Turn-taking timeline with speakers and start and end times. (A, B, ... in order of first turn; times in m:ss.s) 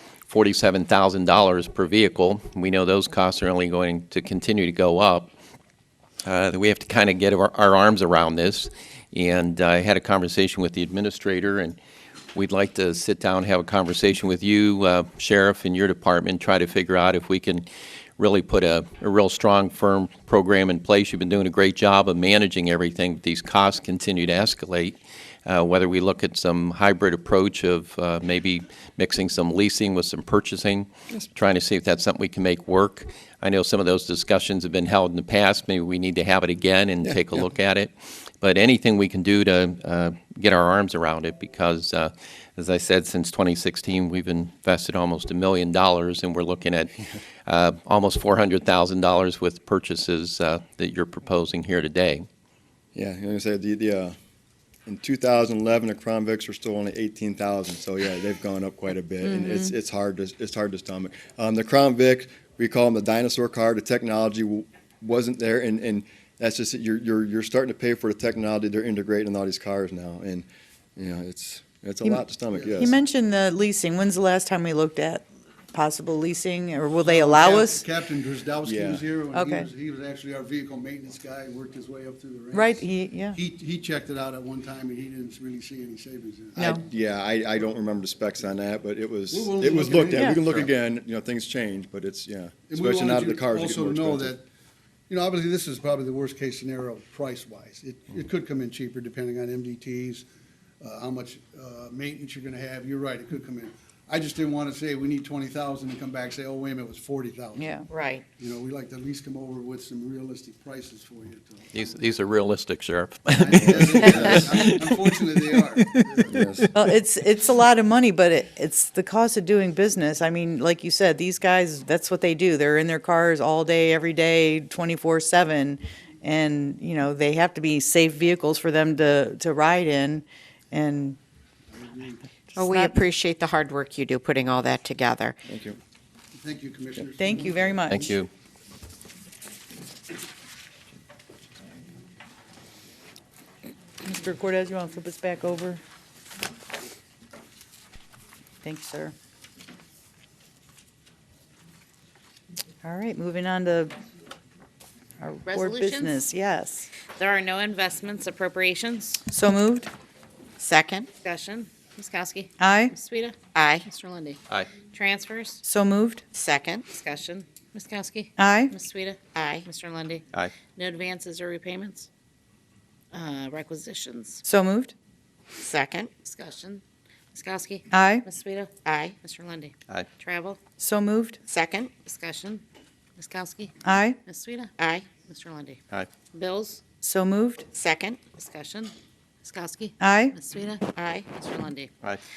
0:00.3-0:05.3 A
0:06.2-0:11.8 A
0:12.4-0:46.9 A
0:37.0-0:37.4 B
0:47.5-0:52.3 A
0:52.9-0:54.2 B
0:54.9-1:13.0 B
0:59.2-0:59.7 C
1:12.5-1:12.9 D
1:12.8-1:17.8 C
1:17.0-1:26.8 D
1:18.6-1:19.0 B
1:19.3-1:19.7 C
1:22.5-1:23.4 C
1:26.6-1:34.4 B
1:29.3-1:30.7 D
1:32.7-1:34.4 D
1:35.1-1:40.2 D
1:40.8-1:47.8 D
1:47.6-1:47.9 C
1:47.9-1:48.2 E
1:48.4-1:51.9 D
1:51.7-1:54.9 A
1:53.3-1:56.7 D
1:53.6-1:54.4 B
1:56.3-1:56.7 B
1:56.7-2:11.2 C
2:11.7-2:12.3 D
2:12.5-2:13.0 C
2:12.6-2:15.4 E
2:15.5-2:15.8 B
2:16.4-2:17.8 D
2:17.2-2:18.1 C
2:17.9-2:18.3 A
2:24.0-2:25.8 C
2:28.6-2:29.2 C
2:32.8-2:33.9 C
2:35.2-2:36.9 C
2:35.5-2:36.2 F
2:37.1-2:39.2 F
2:39.3-2:39.9 C
2:40.6-2:41.1 E
2:41.2-2:44.4 F
2:42.6-2:42.9 C
2:43.5-2:43.8 E
2:44.9-2:45.6 F
2:45.6-2:46.2 C
2:46.3-2:46.9 E
2:46.9-2:52.1 F
2:48.4-2:48.7 C
2:49.3-2:49.7 E
2:53.1-2:54.4 F
2:54.4-2:54.9 C
2:55.6-2:56.1 E
2:56.2-3:00.6 F
2:57.9-2:58.2 C
2:58.8-2:59.2 E
3:00.8-3:01.4 C
3:01.5-3:01.9 E
3:02.0-3:02.6 F
3:03.2-3:05.8 F
3:03.8-3:04.2 C
3:04.8-3:05.1 E
3:06.3-3:06.8 F
3:07.0-3:07.7 C
3:07.7-3:08.2 E
3:08.4-3:11.9 F
3:10.0-3:10.4 C
3:10.9-3:11.3 E